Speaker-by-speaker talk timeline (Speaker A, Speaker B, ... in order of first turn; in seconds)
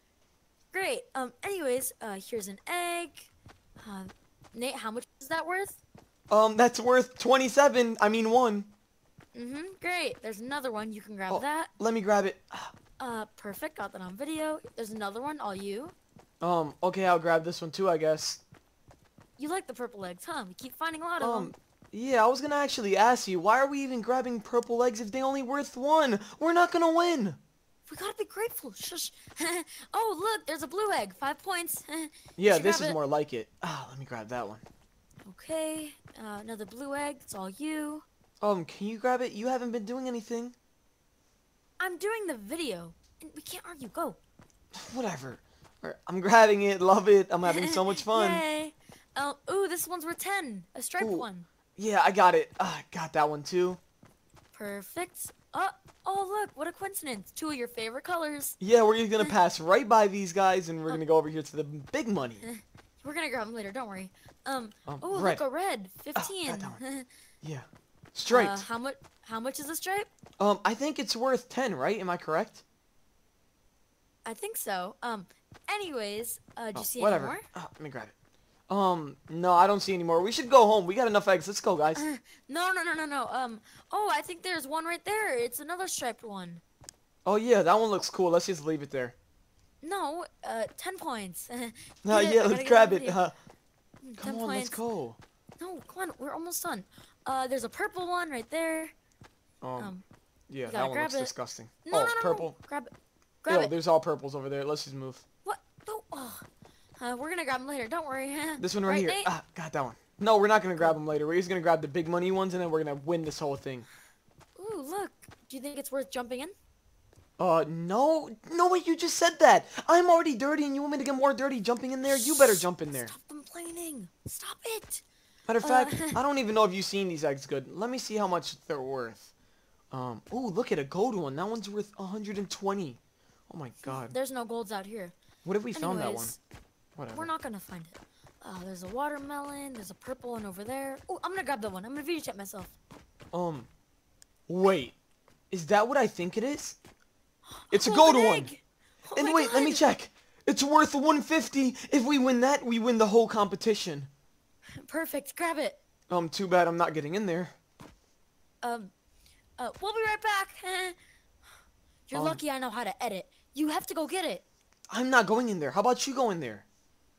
Speaker A: 0.7-5.8, 9.3-11.7, 13.0-15.9, 19.4-21.6, 27.9-33.0, 35.3-38.0, 41.8-44.2, 47.5-51.5, 54.5-58.6, 62.4-67.1, 68.3-70.1, 74.3-77.4, 82.0-86.6, 89.8-93.2, 94.0-94.8, 95.6-98.9, 99.8-100.0, 100.7-101.3, 101.8-102.9, 103.4-103.7, 105.5-106.5, 107.0-109.3, 114.6-116.5, 122.1-125.0, 125.6-126.2, 133.8-135.2, 135.7-136.4, 137.1-142.8, 147.5-149.8, 154.8-155.8, 158.6-158.9, 159.6-161.0, 162.1-164.4
Speaker B: 6.3-8.7, 11.3-12.7, 16.4-18.4, 21.2-27.4, 32.4-34.6, 38.4-40.6, 44.8-48.4, 51.0-51.3, 51.8-53.8, 58.6-62.5, 64.9-65.4, 66.2-66.8, 67.4-68.6, 70.4-72.6, 76.8-78.1, 78.7-82.0, 87.3-89.2, 92.0-93.3, 94.2-95.2, 99.6-99.9, 100.5-102.6, 103.5-105.2, 108.6-113.9, 117.4-123.1, 125.5-129.3, 129.9-134.1, 135.4-136.3, 137.0-137.3, 143.3-143.7, 144.5-145.0, 145.5-146.8, 147.7-148.5, 149.2-154.1, 156.1-157.6, 162.1-162.4, 164.9-166.7